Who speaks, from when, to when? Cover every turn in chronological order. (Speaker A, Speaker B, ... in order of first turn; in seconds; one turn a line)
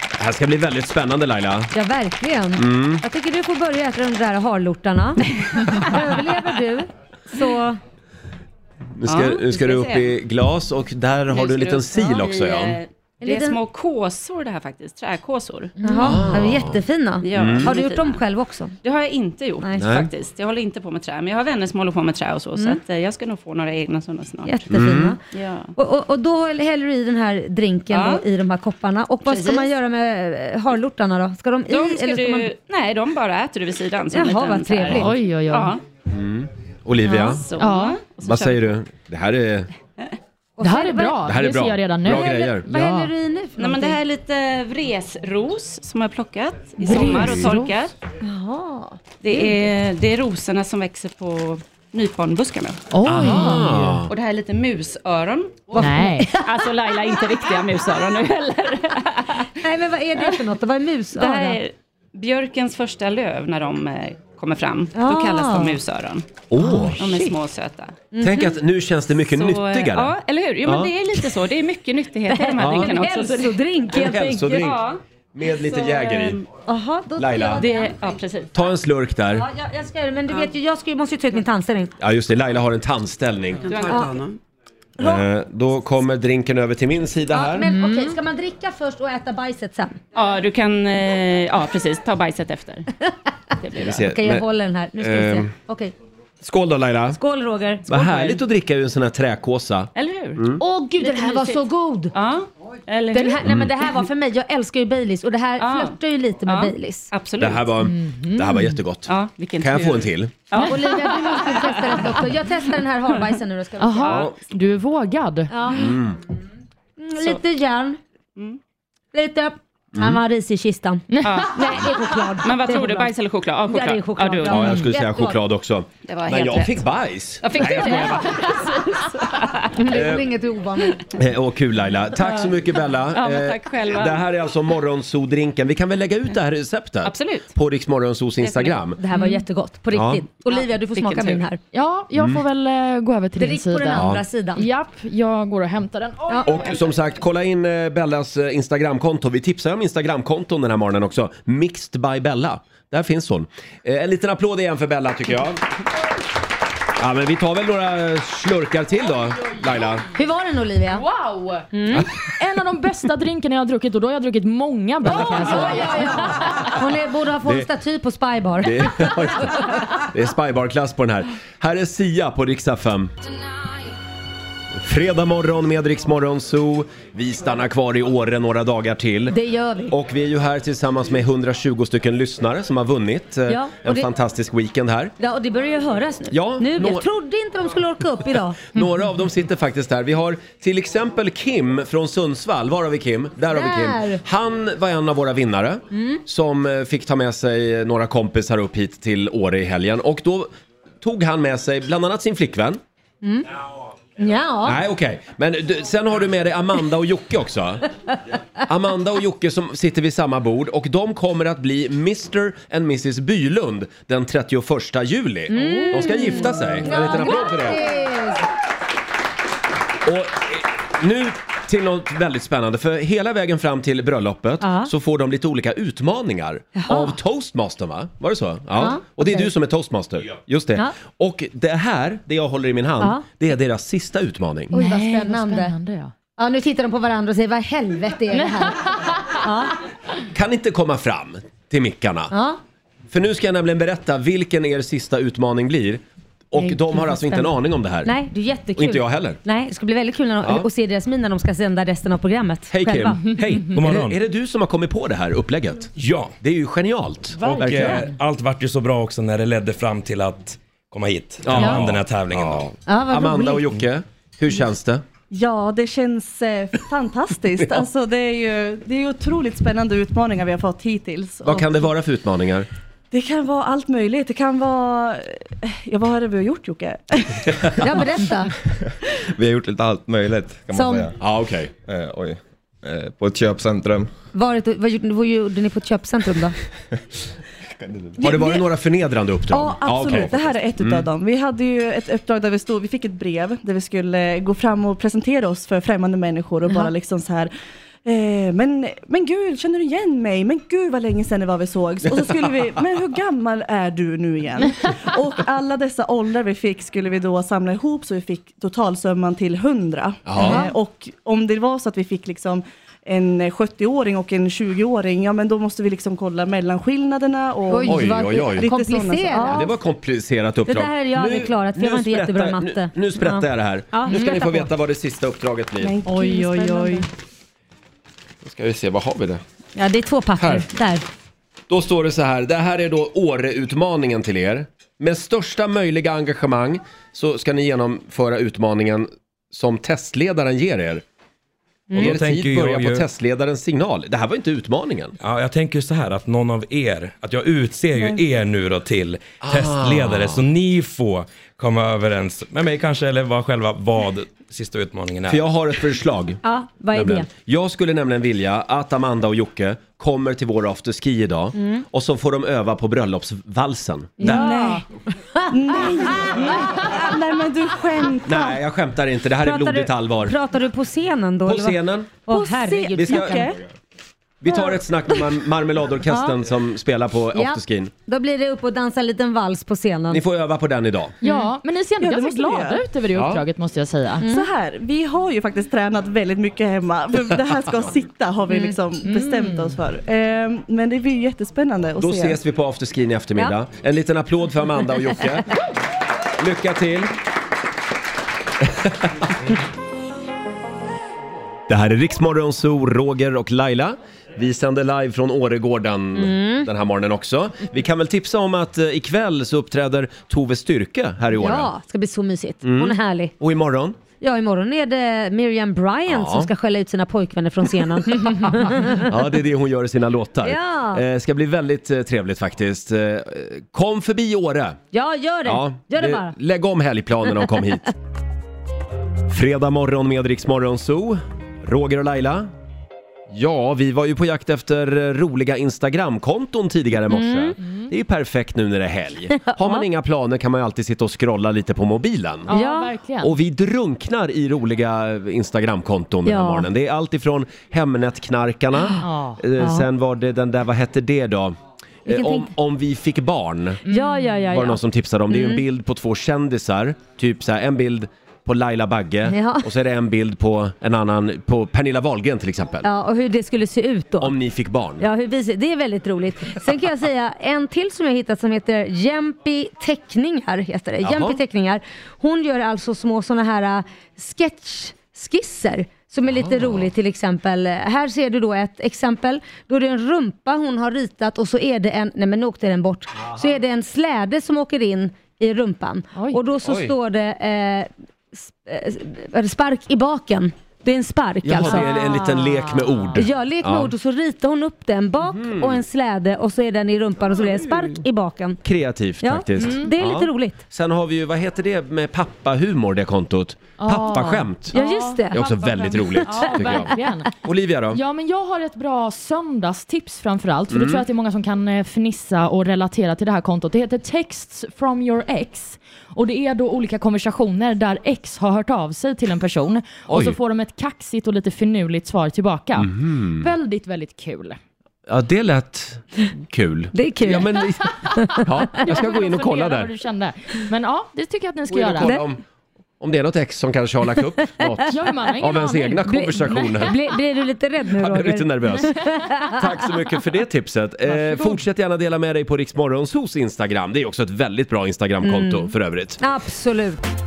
Speaker A: 0.2-1.7
Speaker B: 1.7-7.8
Speaker A: 2.5-3.0
Speaker C: 5.6-6.0
Speaker A: 9.0-12.8
Speaker C: 9.1-10.2
Speaker C: 11.3-15.8
Speaker B: 13.2-13.6
Speaker B: 15.8-18.8
Speaker A: 16.0-16.8
Speaker C: 17.2-18.2
Speaker A: 17.3-17.8
Speaker C: 18.8-24.6
Speaker B: 19.6-19.9
Speaker A: 19.8-20.1
Speaker B: 24.4-25.2
Speaker A: 24.7-25.2
Speaker C: 25.3-25.7
Speaker B: 25.8-32.5
Speaker C: 27.9-28.2
Speaker C: 29.2-29.8
Speaker C: 31.7-35.8
Speaker B: 34.1-35.1
Speaker D: 34.9-35.7
Speaker A: 36.1-37.5
Speaker C: 37.1-38.7
Speaker D: 37.6-38.0
Speaker A: 38.2-39.7
Speaker B: 40.6-41.3
Speaker D: 40.6-43.1
Speaker A: 41.2-42.7
Speaker B: 42.1-44.0
Speaker C: 43.6-47.9
Speaker D: 46.8-47.7
Speaker A: 47.1-47.4
Speaker B: 48.2-49.5
Speaker C: 49.2-53.4
Speaker D: 52.9-54.0
Speaker A: 53.0-54.1
Speaker C: 54.1-55.9
Speaker D: 55.8-56.3
Speaker B: 55.8-57.1
Speaker C: 56.4-59.5
Speaker B: 59.6-61.6
Speaker C: 60.2-60.5
Speaker C: 61.1-66.4
Speaker B: 64.9-65.8
Speaker A: 66.5-67.3
Speaker C: 67.0-68.1
Speaker B: 68.1-68.5
Speaker A: 68.2-70.9
Speaker C: 69.3-73.6
Speaker B: 72.3-74.8
Speaker A: 72.6-73.0
Speaker A: 73.9-76.4
Speaker C: 74.5-75.0
Speaker C: 75.5-76.4
Speaker B: 76.7-78.0
Speaker A: 77.2-77.7
Speaker C: 77.6-78.5
Speaker A: 78.5-79.5
Speaker B: 79.4-81.9
Speaker A: 82.0-83.7
Speaker C: 83.6-84.4
Speaker A: 85.0-87.7
Speaker B: 87.3-90.0
Speaker C: 90.1-92.9
Speaker C: 93.6-94.0
Speaker A: 93.8-94.5
Speaker B: 93.9-95.9
Speaker A: 95.0-95.5
Speaker A: 96.4-97.2
Speaker B: 97.2-98.3
Speaker A: 97.9-100.6
Speaker C: 100.0-100.4
Speaker B: 100.6-102.1
Speaker C: 101.0-103.5
Speaker B: 103.1-107.1
Speaker A: 103.4-103.7
Speaker C: 105.6-107.7
Speaker A: 107.4-110.3
Speaker D: 107.9-108.7
Speaker C: 109.1-112.3
Speaker B: 110.6-114.3
Speaker D: 113.8-115.5
Speaker A: 114.1-114.3
Speaker B: 115.5-116.0
Speaker A: 115.7-116.2
Speaker B: 117.0-118.0
Speaker C: 117.2-117.4
Speaker B: 119.1-123.1
Speaker A: 119.9-120.2
Speaker D: 121.1-121.5
Speaker C: 121.2-124.6
Speaker B: 123.7-125.4
Speaker A: 124.5-128.4
Speaker C: 126.0-126.8
Speaker C: 127.4-130.0
Speaker B: 127.6-128.2
Speaker B: 129.8-131.0
Speaker A: 129.9-130.3
Speaker A: 131.2-139.0
Speaker C: 133.1-134.2
Speaker C: 137.0-137.5
Speaker C: 138.4-138.8
Speaker B: 139.0-141.6
Speaker A: 139.9-140.2
Speaker C: 140.5-141.5
Speaker D: 141.7-146.7
Speaker A: 142.2-142.4
Speaker B: 143.4-144.7
Speaker A: 143.9-144.2
Speaker A: 146.5-155.6
Speaker A: 157.0-160.1
Speaker B: 160.2-161.0
Speaker D: 161.0-161.7
Speaker B: 161.7-162.1
Speaker D: 162.4-166.7
Speaker B: 165.1-169.5
Speaker A: 168.6-173.1
Speaker A: 174.8-179.4
Speaker B: 179.3-179.9
Speaker A: 179.9-185.1
Speaker B: 183.5-184.1
Speaker B: 185.2-188.8
Speaker A: 186.3-187.1
Speaker A: 188.7-202.8
Speaker B: 193.5-194.2
Speaker B: 195.9-196.2
Speaker B: 204.2-204.8
Speaker A: 204.6-207.9
Speaker A: 208.7-217.8
Speaker B: 215.5-218.4
Speaker A: 220.1-234.7
Speaker B: 224.6-224.9
Speaker B: 226.8-227.2
Speaker B: 228.8-229.5
Speaker B: 234.7-235.7
Speaker D: 234.7-236.1
Speaker B: 236.4-239.7
Speaker D: 238.3-239.2
Speaker A: 240.3-242.3
Speaker B: 242.3-242.6
Speaker A: 243.1-248.1
Speaker B: 246.6-247.5
Speaker B: 248.0-253.2
Speaker A: 248.8-249.4
Speaker A: 252.7-258.1
Speaker E: 253.7-254.2
Speaker E: 256.0-256.3
Speaker E: 257.4-262.7
Speaker A: 261.4-265.0
Speaker B: 262.9-263.7
Speaker F: 265.3-271.9
Speaker A: 271.4-272.7
Speaker F: 273.1-278.1
Speaker B: 277.8-278.6
Speaker G: 279.4-281.1
Speaker B: 280.7-281.1
Speaker A: 281.2-281.7
Speaker G: 281.9-284.1
Speaker B: 284.3-286.6
Speaker A: 288.2-291.1
Speaker F: 288.2-288.6
Speaker F: 289.5-297.5
Speaker F: 298.1-319.7
Speaker A: 310.3-310.6
Speaker B: 310.4-310.7
Speaker B: 317.7-319.7
Speaker A: 317.9-318.7
Speaker A: 319.4-326.0
Speaker B: 320.7-324.7
Speaker F: 325.8-327.1
Speaker B: 326.1-327.1
Speaker A: 328.4-329.4
Speaker B: 329.8-331.0
Speaker A: 330.4-330.7
Speaker A: 331.7-341.0
Speaker E: 341.9-343.1
Speaker A: 341.9-345.2
Speaker E: 345.2-355.4
Speaker A: 349.4-350.5
Speaker A: 355.3-364.6
Speaker B: 356.4-357.3
Speaker B: 361.6-361.8
Speaker B: 364.2-364.9
Speaker F: 364.2-364.8
Speaker F: 365.5-368.6
Speaker B: 365.7-366.9
Speaker A: 368.3-370.4
Speaker B: 369.4-373.5
Speaker A: 371.4-372.2
Speaker F: 372.3-373.6
Speaker A: 372.9-373.4
Speaker A: 374.4-377.9
Speaker B: 376.1-376.3
Speaker B: 377.4-380.2
Speaker A: 380.1-381.2
Speaker D: 381.2-384.2
Speaker F: 382.0-382.8
Speaker A: 383.1-383.4
Speaker F: 384.3-392.4
Speaker B: 388.5-388.8
Speaker D: 389.1-389.8
Speaker A: 392.0-395.5
Speaker A: 396.4-397.1
Speaker A: 398.6-399.4
Speaker A: 401.7-411.7
Speaker B: 406.2-406.7
Speaker B: 411.3-413.3
Speaker A: 412.6-414.0
Speaker B: 414.2-419.1
Speaker A: 416.1-416.5
Speaker A: 418.9-424.8
Speaker B: 420.4-421.0
Speaker B: 424.9-426.3
Speaker A: 425.4-427.9
Speaker A: 429.3-432.5
Speaker A: 433.3-442.5
Speaker B: 437.1-437.6
Speaker D: 437.6-437.9
Speaker B: 439.4-439.8
Speaker D: 442.5-443.3
Speaker B: 442.5-442.9
Speaker A: 443.2-453.8
Speaker B: 446.3-446.7
Speaker D: 449.0-449.4
Speaker B: 449.6-449.9
Speaker B: 452.1-452.5
Speaker D: 453.9-454.4
Speaker B: 453.9-455.6
Speaker A: 454.5-462.9
Speaker B: 459.3-459.7
Speaker B: 462.8-464.3
Speaker A: 464.2-465.1
Speaker B: 465.0-491.9
Speaker A: 471.0-471.4
Speaker A: 476.3-476.9
Speaker A: 486.6-486.9
Speaker A: 491.4-493.9
Speaker D: 491.6-493.2
Speaker B: 493.2-498.6
Speaker A: 495.3-495.8
Speaker A: 497.4-498.0
Speaker A: 498.6-504.8
Speaker B: 499.2-500.6
Speaker D: 499.6-499.9
Speaker D: 503.8-507.3
Speaker B: 504.7-505.5
Speaker A: 505.3-506.9
Speaker B: 506.3-506.8
Speaker A: 507.4-508.0
Speaker D: 507.9-524.6
Speaker A: 510.7-511.1
Speaker A: 520.1-520.4
Speaker A: 522.8-523.5
Speaker A: 525.1-529.9
Speaker B: 526.9-528.5
Speaker D: 528.6-532.1
Speaker A: 531.7-532.4
Speaker A: 533.0-537.0
Speaker D: 534.9-536.8
Speaker B: 536.1-539.6
Speaker A: 537.9-546.2
Speaker D: 541.1-541.6
Speaker B: 545.2-547.0